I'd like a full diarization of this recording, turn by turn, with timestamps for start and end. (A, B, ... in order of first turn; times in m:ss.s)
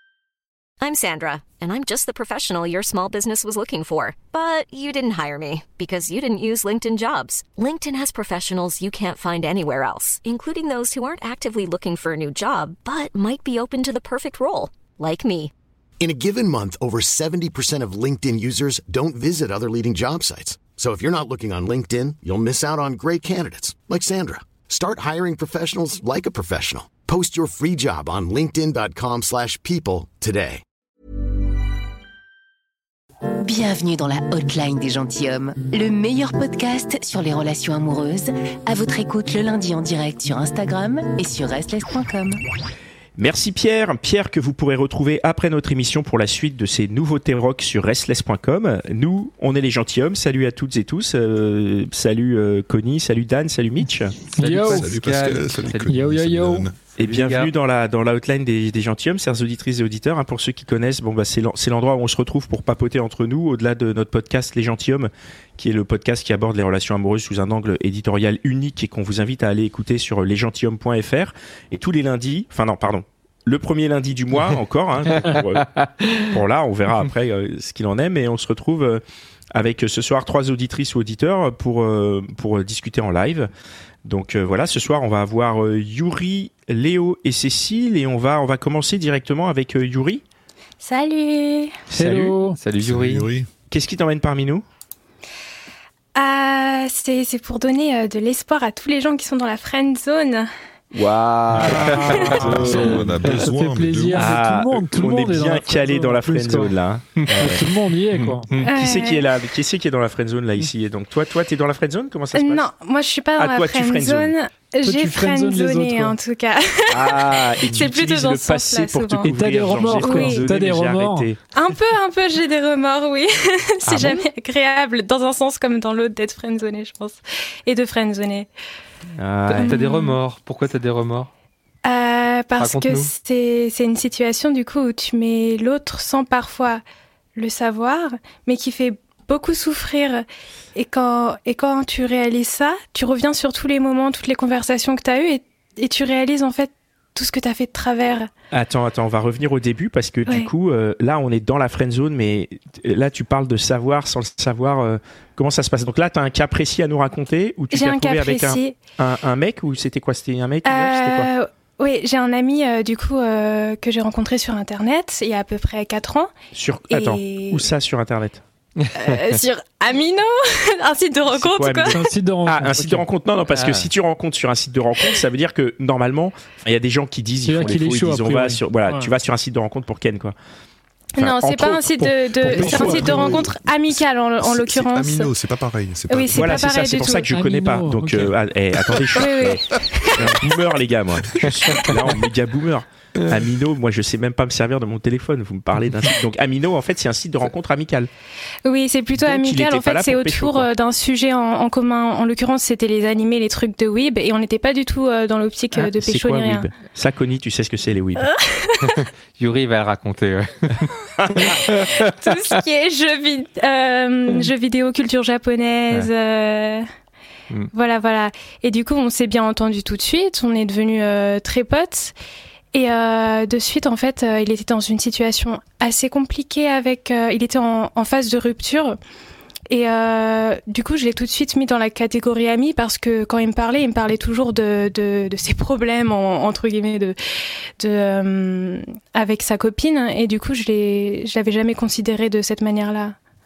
0:00.8-0:15.5 A
0:16.0-0:30.6 B
0:33.4-0:42.4 C
0:43.2-0:54.1 D
0:54.4-0:54.9 E
0:54.4-0:55.9 F
0:54.6-0:56.7 G
0:55.9-0:56.7 E
0:57.0-0:57.5 F
0:57.0-1:19.0 D
1:15.2-1:16.2 F
1:19.5-1:23.5 D
1:24.0-1:30.2 D
1:30.8-1:31.8 H
1:31.9-1:32.4 D
1:31.9-1:32.6 E
1:32.6-1:33.2 F
1:32.8-1:33.5 G
1:33.7-1:34.6 D
1:36.1-1:40.5 H
1:40.9-1:43.0 D
1:41.6-1:46.7 E
1:42.2-1:44.4 G
1:44.1-1:47.7 D
1:47.3-1:48.5 E
1:48.1-1:48.7 F
1:48.6-1:52.7 D
1:48.6-1:49.2 H
1:52.3-1:59.3 H
1:53.4-1:54.3 D
1:54.8-1:56.2 E
1:56.9-2:01.4 D
1:59.2-2:01.3 E
1:59.9-2:00.4 H
2:01.5-2:08.5 H
2:03.8-2:04.2 F
2:09.2-2:09.8 D
2:09.5-2:11.3 F
2:09.6-2:10.2 H
2:11.8-2:16.8 H
2:12.6-2:13.1 F
2:17.4-2:28.3 H
2:28.5-2:41.3 D
2:37.7-2:38.8 H
2:40.6-2:46.3 H
2:46.5-2:48.4 D
2:46.9-2:47.7 H
2:48.8-2:49.1 F
2:48.9-2:52.1 H
2:51.3-3:00.3 D
2:51.9-2:53.0 E
2:53.5-2:53.9 F
2:57.4-2:59.1 E
3:01.2-3:05.3 H
3:01.2-3:03.2 D
3:02.5-3:03.3 E
3:02.5-3:03.6 G
3:04.4-3:06.9 G
3:06.1-3:07.3 H
3:06.3-3:18.1 D
3:07.3-3:08.3 E
3:09.1-3:10.4 H
3:18.6-3:26.7 H
3:19.2-3:20.7 D
3:25.8-3:28.3 D
3:28.2-3:29.0 H
3:28.8-3:32.5 F
3:31.4-3:36.8 H
3:37.7-3:42.1 H
3:42.7-3:49.0 H
3:49.7-3:57.2 H
3:57.8-4:03.2 H